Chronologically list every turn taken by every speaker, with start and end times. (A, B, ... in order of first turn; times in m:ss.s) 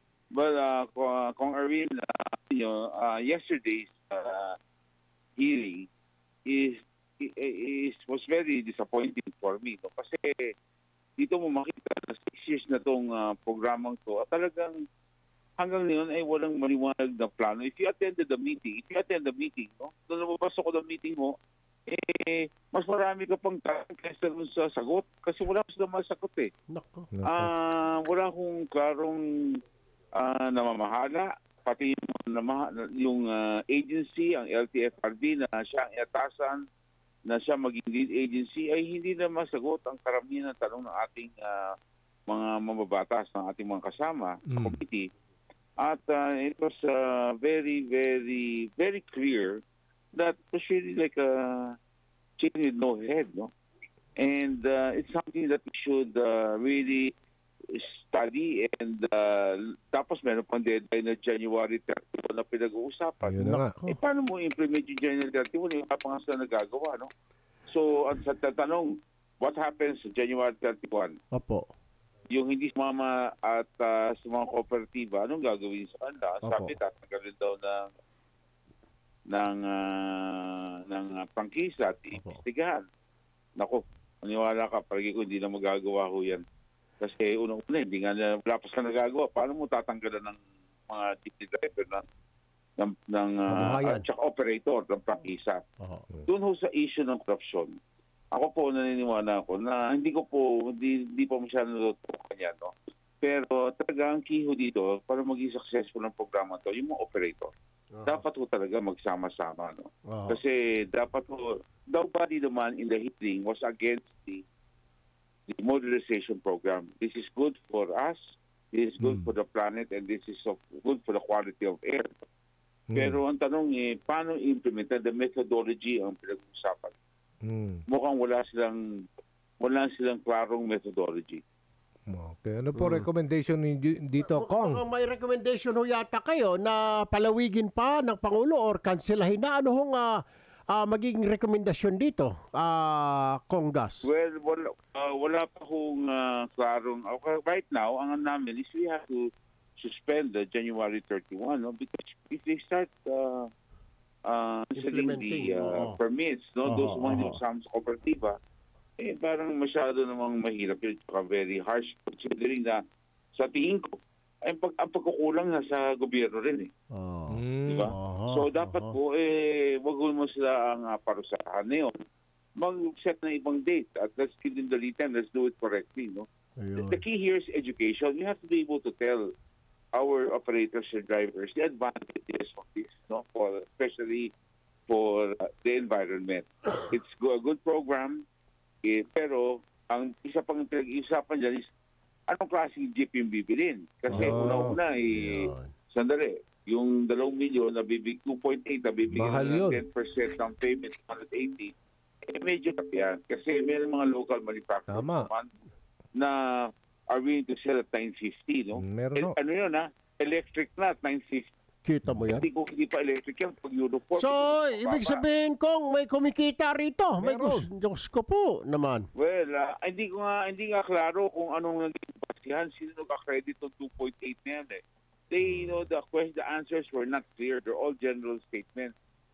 0:00.3-0:04.6 A
0:05.4-0:05.9 A
0:06.4-0:10.5 A
0:11.2-0:14.8 A
0:15.6-0:21.4 A
0:21.9-0:26.5 A
0:26.7-0:27.1 B
0:27.1-0:27.5 C
0:27.2-0:29.6 A
0:30.1-0:36.6 A
0:37.3-0:41.7 A
0:42.3-0:45.1 A
0:44.5-0:44.8 C
0:45.8-0:49.6 A
0:50.1-0:51.8 A
0:52.4-0:53.5 A
0:54.2-0:57.1 A
0:57.7-1:07.1 A
1:03.2-1:03.8 C
1:07.7-1:11.2 A
1:11.3-1:11.7 B
1:12.3-1:17.9 A
1:16.4-1:16.7 B
1:19.3-1:22.8 A
1:22.1-1:22.4 B
1:23.6-1:26.4 A
1:27.0-1:32.0 A
1:32.8-1:35.6 A
1:33.5-1:34.0 B
1:35.8-1:36.0 B
1:36.2-1:37.7 A
1:38.3-1:47.5 A
1:48.0-1:48.2 B
1:48.0-1:54.4 A
1:50.1-1:50.4 B
1:55.5-2:02.1 A
1:59.0-1:59.3 C
2:02.9-2:03.2 C
2:02.9-2:07.0 A
2:07.4-2:07.8 C
2:07.9-2:09.0 A
2:09.6-2:11.4 A
2:12.1-2:14.8 C
2:12.8-2:13.0 B
2:14.2-2:20.2 B
2:20.7-2:24.1 B
2:24.0-2:33.5 A
2:34.2-2:38.4 A
2:34.8-2:36.0 B
2:36.6-2:37.4 B
2:39.0-2:42.8 A
2:43.4-2:46.7 A
2:46.9-2:49.0 B
2:47.3-2:47.9 C
2:47.6-2:52.0 A
2:52.6-2:56.3 A
2:56.6-2:57.0 B
2:56.8-2:59.3 A
3:00.0-3:04.3 A
3:04.9-3:08.2 A
3:08.8-3:11.7 A
3:12.3-3:21.7 A
3:14.1-3:14.8 C
3:14.1-3:15.7 B
3:19.1-3:19.8 C
3:22.3-3:25.5 A
3:24.9-3:25.3 C
3:26.1-3:31.5 A
3:28.7-3:29.3 C
3:31.8-3:32.4 B
3:32.3-3:35.2 A
3:34.2-3:39.1 B
3:37.2-3:37.7 C
3:39.2-3:48.9 A
3:45.4-3:45.8 B